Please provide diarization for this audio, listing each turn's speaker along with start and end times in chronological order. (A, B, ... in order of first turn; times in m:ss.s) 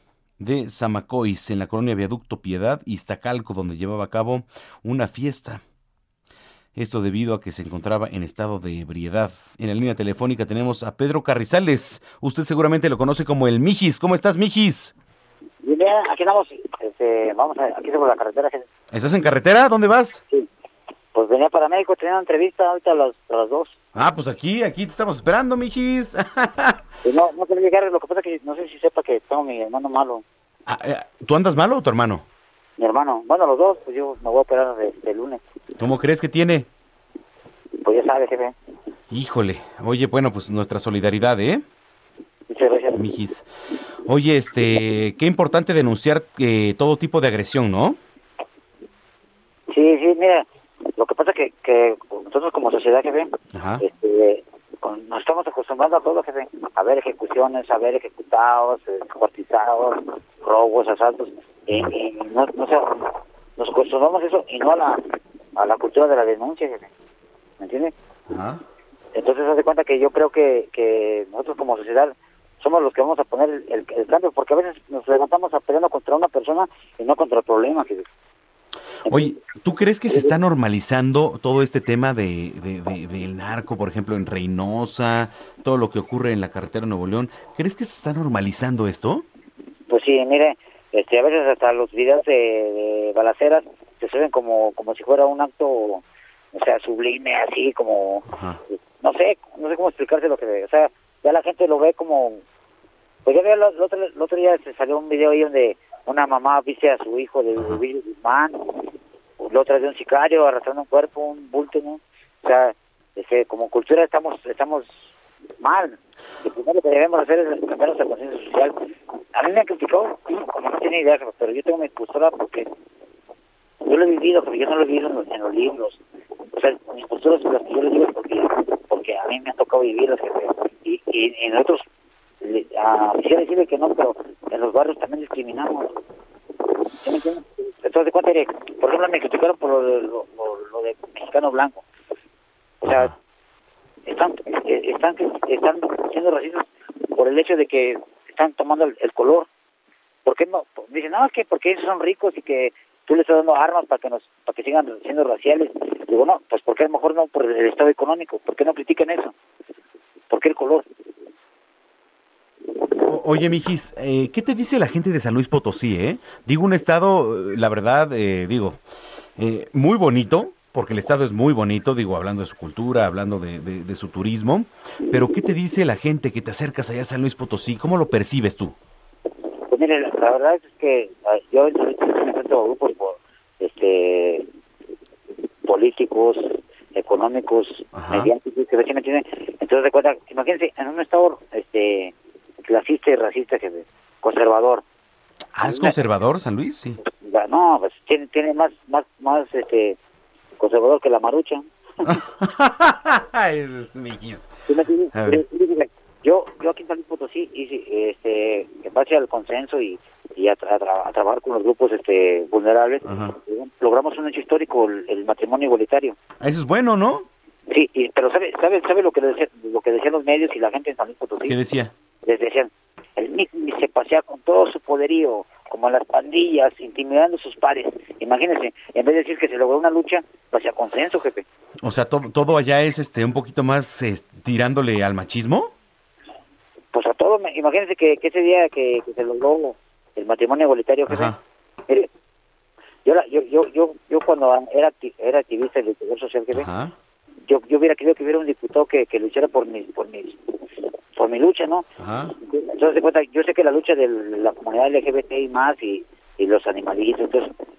0:00.4-0:05.6 A
0:06.7-0:14.9 A
0:15.6-0:18.7 B
0:18.9-0:20.2 A
0:21.1-0:23.8 B
0:23.9-0:26.8 A
0:27.0-0:30.2 B
0:30.7-0:32.2 A
0:32.8-0:35.4 B
0:35.8-0:36.7 A
0:37.8-0:38.5 B
0:39.1-0:41.6 A
0:42.5-0:43.0 B
0:43.0-0:43.4 A
0:44.0-0:48.0 A
0:49.7-1:05.0 B
0:53.5-0:53.8 A
1:05.6-1:06.9 B
1:07.6-1:07.9 B
1:08.3-1:08.6 A
1:09.1-1:18.0 B
1:19.0-1:29.2 A
1:19.1-1:19.4 B
1:29.9-1:42.4 B
1:38.3-1:38.6 A
1:43.2-1:55.1 B
1:55.6-1:58.8 B
1:59.3-2:02.7 B
2:03.8-2:06.0 B
2:06.6-2:11.8 B
2:12.4-2:15.9 B
2:17.0-2:21.8 B
2:22.8-2:23.1 B
2:22.9-2:23.1 A
2:24.0-2:29.5 B
2:30.2-2:39.3 B
2:40.3-2:40.8 B
2:43.0-2:48.8 A
2:49.4-2:58.8 A
2:59.7-3:04.5 B
3:05.6-3:12.1 B
3:07.9-3:08.3 A
3:12.6-3:14.8 B
3:15.6-3:17.0 A
3:15.6-3:15.9 B
3:17.0-3:20.0 B
3:20.6-3:22.1 B
3:22.0-3:24.5 A
3:24.7-3:36.2 B
3:25.1-3:25.4 A
3:33.0-3:33.4 A
3:36.4-3:37.3 A
3:37.7-3:41.6 B
3:41.4-3:41.9 A
3:42.2-3:51.4 B
3:51.8-3:55.7 A
3:56.9-4:02.1 B
4:01.1-4:01.4 A
4:03.0-4:06.7 B
4:06.5-4:06.9 A
4:07.4-4:10.4 B
4:11.1-4:11.8 B
4:12.0-4:12.3 A
4:12.4-4:17.5 B